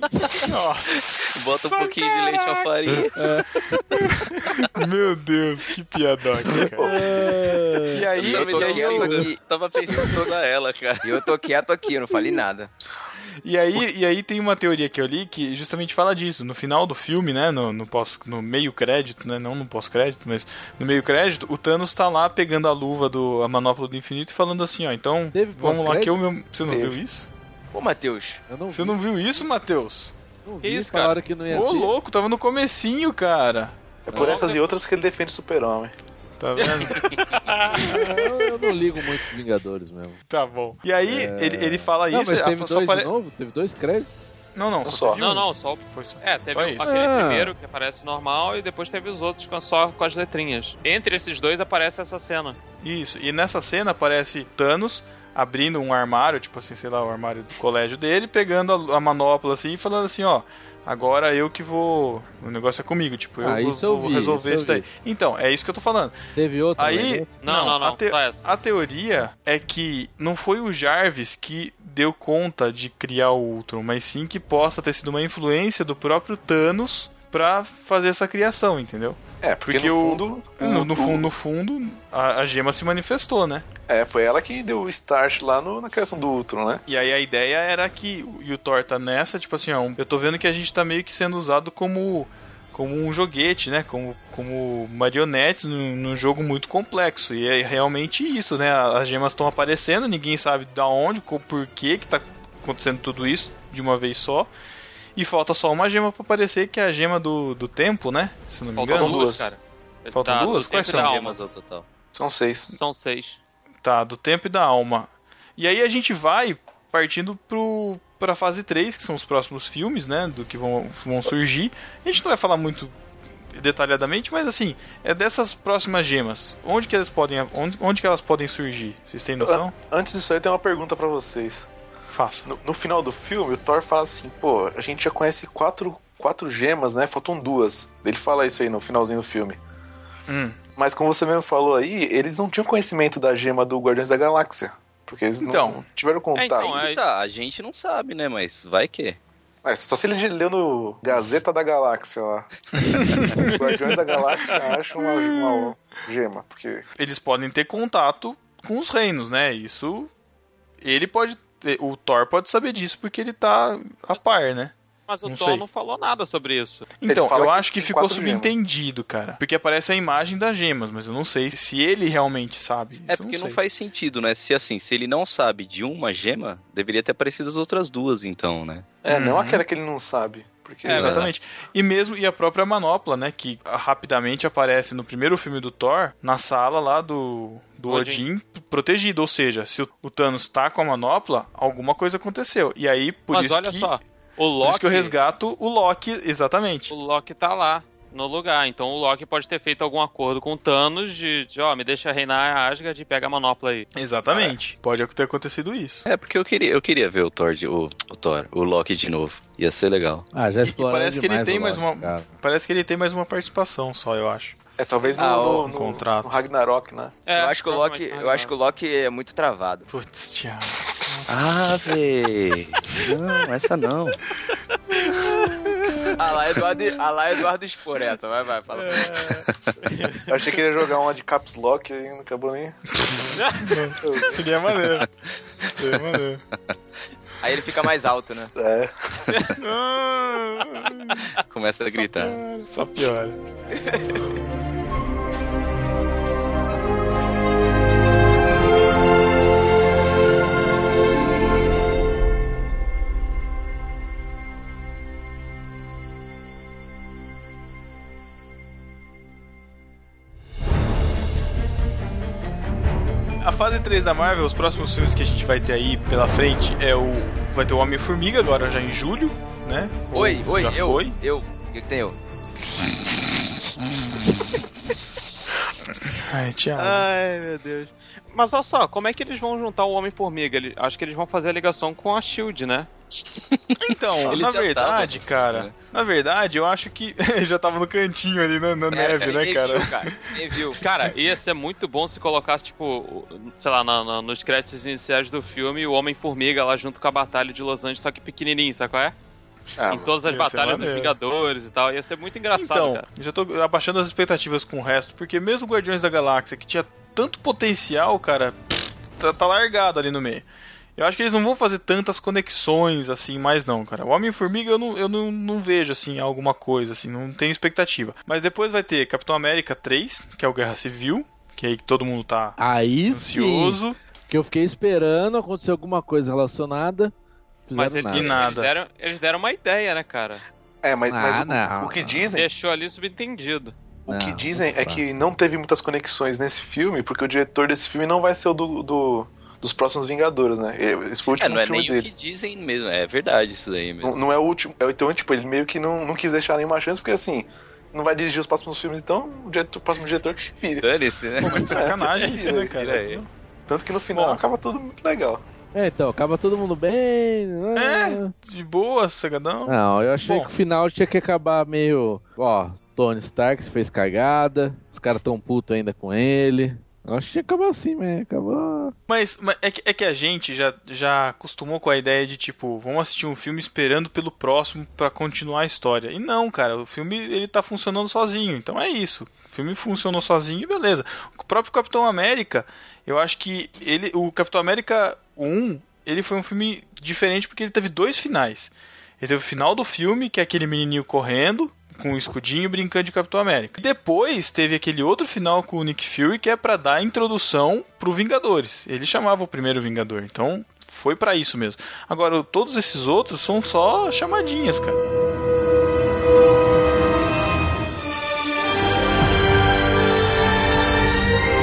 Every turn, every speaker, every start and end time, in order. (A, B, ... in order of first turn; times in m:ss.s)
0:00.4-0:03.1 A
0:01.2-0:03.3 B
0:03.2-0:04.0 C
0:03.9-0:07.3 A
0:06.6-0:07.4 B
0:06.8-0:08.0 C
0:07.9-0:09.3 A
0:08.2-0:10.3 D
0:08.2-0:11.3 B
0:11.0-0:12.7 D
0:13.4-0:27.3 A
0:25.3-0:26.2 C
0:26.7-0:27.0 E
0:27.7-0:28.4 D
0:28.5-0:29.0 C
0:28.7-0:30.1 A
0:30.4-0:31.9 C
0:30.6-0:31.2 F
0:31.5-0:33.8 A
0:34.1-0:35.9 E
0:34.1-0:34.4 C
0:34.1-0:34.6 F
0:36.4-0:38.8 A
0:36.9-0:37.3 B
0:37.8-0:40.2 C
0:40.3-0:43.1 A
0:41.0-0:44.1 C
0:44.6-0:47.1 A
0:44.8-0:45.2 E
0:45.2-0:52.6 F
0:46.8-0:47.5 C
0:52.8-1:06.2 A
1:03.4-1:04.9 C
1:06.4-1:07.4 C
1:06.8-1:23.7 A
1:07.4-1:08.4 F
1:19.4-1:21.3 E
1:23.9-1:26.8 E
1:26.9-1:44.5 A
1:45.2-1:49.2 A
1:48.8-1:51.4 F
1:48.9-1:49.5 E
1:50.1-1:51.2 A
1:50.8-1:51.9 B
1:52.1-1:52.7 E
1:52.7-1:53.4 F
1:53.8-2:02.9 A
2:03.5-2:09.7 A
2:09.4-2:11.7 E
2:12.1-2:12.5 A
2:12.5-2:19.6 E
2:20.3-2:20.6 A
2:20.8-2:26.9 E
2:25.4-2:25.8 A
2:26.4-2:27.0 F
2:26.6-2:29.2 B
2:29.6-2:32.5 E
2:32.8-2:35.7 A
2:33.3-2:36.9 E
2:37.0-2:40.1 A
2:40.8-2:44.7 A
2:45.1-2:46.9 F
2:45.3-2:45.6 A
2:47.0-2:53.6 A
2:47.1-2:48.6 E
2:53.1-2:59.0 B
2:59.0-3:01.3 E
2:59.1-2:59.6 A
3:00.9-3:14.0 A
3:00.9-3:01.3 B
3:07.9-3:08.2 F
3:13.3-3:15.2 F
3:14.6-3:16.9 A
3:16.9-3:23.9 F
3:24.0-3:26.0 A
3:26.0-3:30.3 B
3:30.3-3:32.3 C
3:30.7-3:34.6 A
3:34.8-3:37.1 E
3:35.2-3:36.4 A
3:35.2-3:35.6 D
3:37.3-3:38.5 F
3:37.4-3:39.9 D
3:39.9-3:41.9 A
3:41.3-3:44.2 B
3:45.0-3:46.1 A
3:45.2-3:45.4 F
3:46.2-3:49.5 D
3:48.7-3:50.5 F
3:50.3-3:52.8 E
3:53.0-3:55.1 A
3:53.4-3:53.8 F
3:54.0-3:54.4 E
3:55.7-3:56.4 A
3:57.4-3:58.5 D
3:58.6-3:58.9 E
3:59.6-4:01.3 A
4:01.4-4:02.4 B
4:01.9-4:03.4 A
4:03.7-4:04.2 D
4:23.4-4:31.2 A
4:30.1-4:32.2 D
4:33.8-4:34.6 A
4:36.0-4:37.1 A
4:36.8-4:37.3 F
4:36.8-4:37.9 D
4:38.3-4:42.9 F
4:43.5-4:45.8 B
4:43.8-4:50.4 A
4:48.9-4:50.8 D
4:50.8-4:59.1 F
4:59.8-5:00.1 E
4:59.9-5:03.1 F
5:00.3-5:01.2 A
5:02.6-5:10.5 A
5:11.0-5:22.6 A
5:22.6-5:27.1 C
5:23.1-5:24.0 A
5:27.7-5:28.5 C
5:27.8-5:30.4 F
5:28.1-5:28.7 A
5:30.8-5:32.5 E
5:31.1-5:32.2 C
5:32.4-5:33.7 F
5:34.1-5:42.1 E
5:34.1-5:35.0 C
5:41.4-5:44.1 B
5:44.0-5:50.9 E
5:50.8-5:53.2 B
5:51.4-5:53.3 A
5:51.4-5:52.7 E
5:53.7-5:55.4 E
5:54.2-5:54.4 A
5:55.8-5:58.3 C
5:57.8-6:00.5 A
5:59.7-6:09.0 C
6:09.1-6:45.0 A